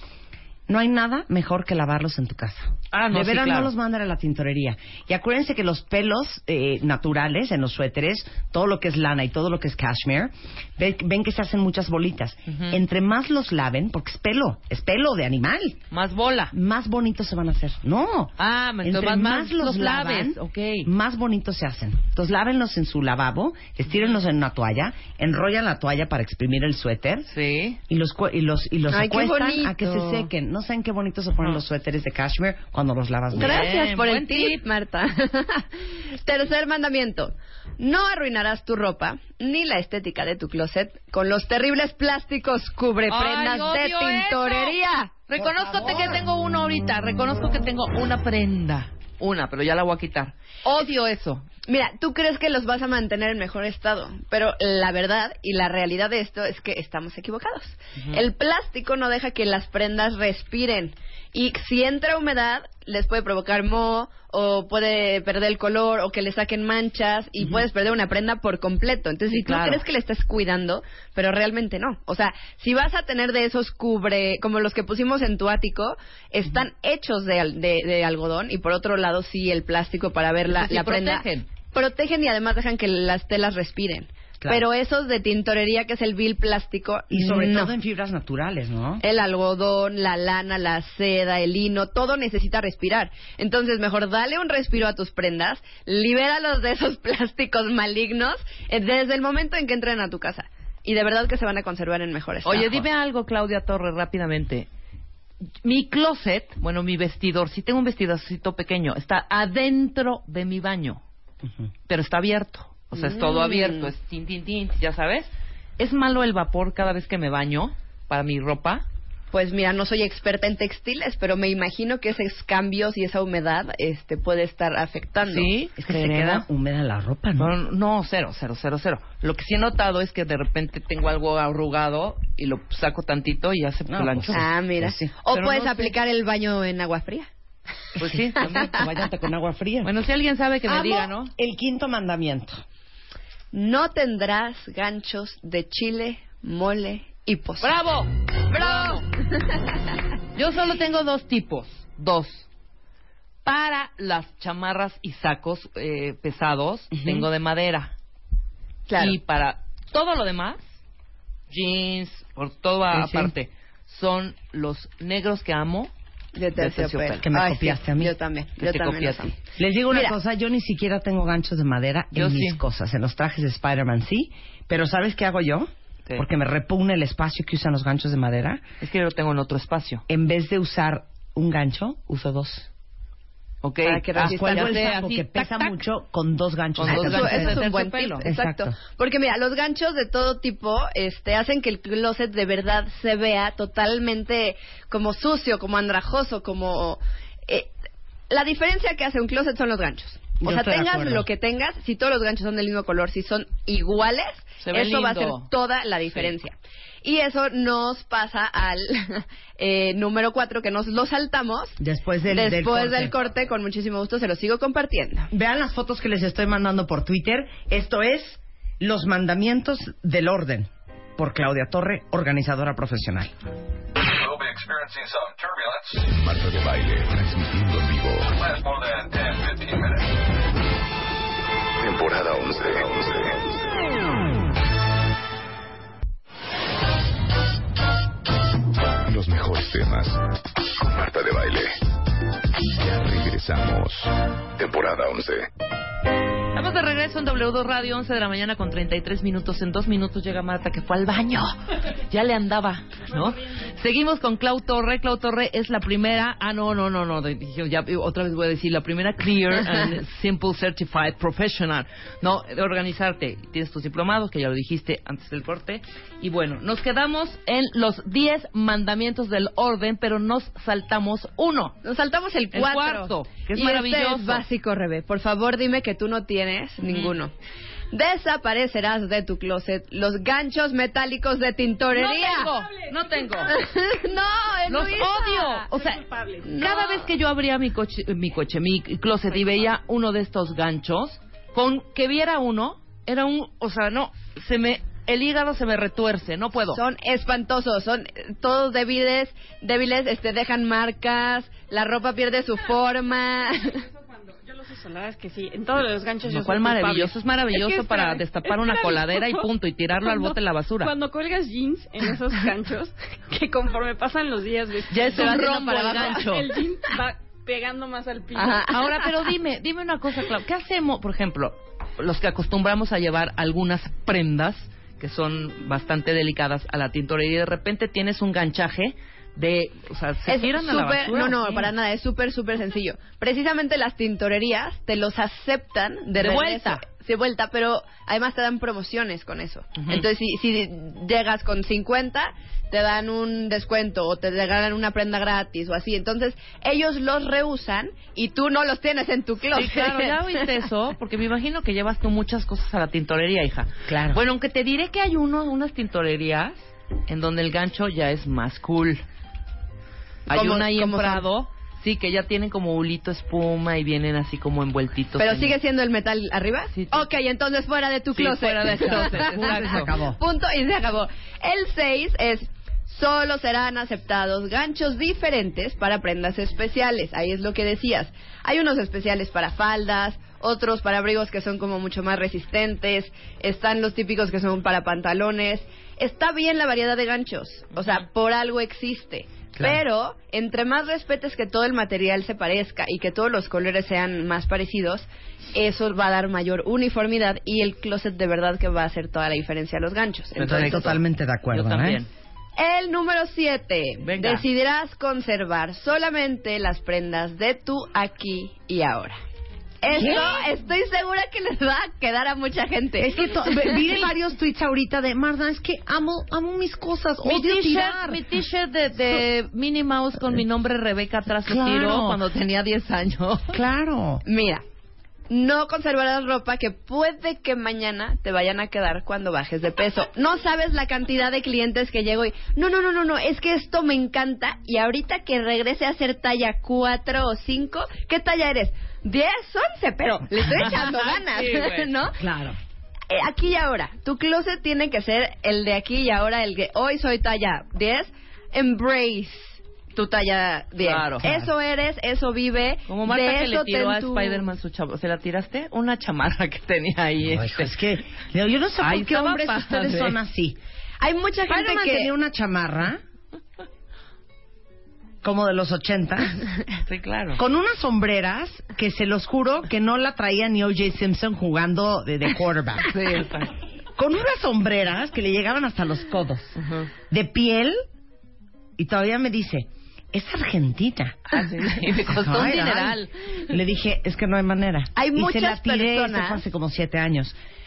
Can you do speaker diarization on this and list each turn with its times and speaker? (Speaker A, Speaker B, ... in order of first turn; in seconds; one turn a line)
Speaker A: 0.7-15.8
Speaker B: 2.9-3.7
Speaker B: 12.5-12.8
Speaker B: 15.9-16.5
Speaker A: 16.5-27.3
Speaker B: 18.4-20.9
Speaker B: 23.9-24.2
Speaker B: 27.3-27.8
Speaker A: 27.9-33.6
Speaker C: 28.9-30.3
Speaker B: 33.3-34.6
Speaker C: 33.4-45.2
Speaker B: 43.1-44.8
Speaker B: 45.3-51.5
Speaker A: 45.4-46.2
Speaker C: 51.7-87.7
Speaker B: 69.4-69.8
Speaker B: 80.5-81.5
Speaker A: 87.1-89.0
Speaker C: 89.0-102.9
Speaker B: 102.5-104.7
Speaker B: 105.6-111.0
Speaker B: 111.9-118.8
Speaker C: 112.9-113.9
Speaker C: 119.3-125.5
Speaker B: 125.2-126.5
Speaker A: 125.8-127.5
Speaker B: 127.4-134.5
Speaker A: 133.9-135.1
Speaker C: 134.3-137.3
Speaker B: 135.3-135.9
Speaker B: 138.0-138.8
Speaker A: 138.0-139.9
Speaker C: 138.5-138.9
Speaker B: 139.8-141.3
Speaker A: 140.7-142.6
Speaker C: 143.5-147.7
Speaker B: 147.6-149.1
Speaker C: 148.5-149.6
Speaker B: 150.3-152.5
Speaker B: 153.4-157.9
Speaker C: 158.9-159.2
Speaker B: 159.0-160.7
Speaker B: 161.5-165.9
Speaker A: 162.9-163.3
Speaker C: 166.3-169.4
Speaker B: 166.6-167.3
Speaker A: 167.2-168.1
Speaker B: 168.6-169.3
Speaker A: 169.6-178.6
Speaker B: 172.1-172.6
Speaker B: 178.8-180.1
Speaker A: 180.1-182.7
Speaker B: 183.6-185.8
Speaker C: 183.8-184.9
Speaker A: 184.2-187.6
Speaker B: 186.8-188.3
Speaker C: 186.8-197.7
Speaker A: 188.2-188.8
Speaker C: 198.3-215.3
Speaker A: 200.4-201.2
Speaker B: 204.6-205.5
Speaker A: 211.8-213.1
Speaker A: 215.3-223.3
Speaker D: 224.1-230.1
Speaker D: 231.8-233.8
Speaker D: 239.1-241.8
Speaker D: 242.6-245.5
Speaker B: 246.5-271.8
Speaker C: 271.8-277.3
Speaker B: 272.5-274.4
Speaker B: 276.8-277.1
Speaker C: 277.9-282.5
Speaker B: 281.9-283.6
Speaker E: 282.6-283.5
Speaker C: 283.5-285.5
Speaker B: 284.7-286.0
Speaker E: 285.4-286.5
Speaker C: 286.4-287.1
Speaker B: 286.6-296.8
Speaker C: 296.7-303.8
Speaker E: 304.1-309.5
Speaker B: 306.3-310.9
Speaker E: 310.0-318.7
Speaker B: 314.9-316.5
Speaker C: 315.1-316.2
Speaker C: 318.4-319.1
Speaker B: 318.7-331.7
Speaker C: 330.3-350.5
Speaker B: 336.2-336.8
Speaker B: 339.8-340.1
Speaker B: 349.5-359.0
Speaker A: 353.9-354.2
Speaker C: 360.3-361.3
Speaker B: 360.3-365.6
Speaker C: 365.2-401.0
Speaker B: 366.7-367.1
Speaker B: 368.1-369.9
Speaker A: 369.2-370.2
Speaker B: 400.4-401.0
Speaker A: 400.4-402.0
Speaker B: 401.5-402.1
Speaker C: 402.6-409.2
Speaker B: 404.0-404.4
Speaker C: 409.8-414.1
Speaker A: 409.9-410.3
Speaker B: 410.0-410.4
Speaker A: 413.0-418.2
Speaker B: 417.2-423.6
Speaker A: 421.4-422.2
Speaker A: 423.5-424.2
Speaker C: 424.2-424.6
Speaker C: 425.3-442.2
Speaker B: 440.4-441.9
Speaker A: 442.2-442.6
Speaker C: 443.1-454.5
Speaker B: 450.8-451.3
Speaker A: 451.2-451.5
Speaker B: 452.9-457.8
Speaker A: 457.3-460.6
Speaker B: 458.8-460.2
Speaker C: 461.0-462.1
Speaker A: 461.5-463.0
Speaker A: 465.2-466.4
Speaker B: 466.9-467.4
Speaker A: 467.4-472.9
Speaker B: 472.9-473.5
Speaker A: 474.0-476.5
Speaker B: 476.6-476.9
Speaker A: 477.1-477.8
Speaker A: 478.8-481.2
Speaker B: 481.3-483.1
Speaker A: 482.1-487.4
Speaker C: 485.0-486.4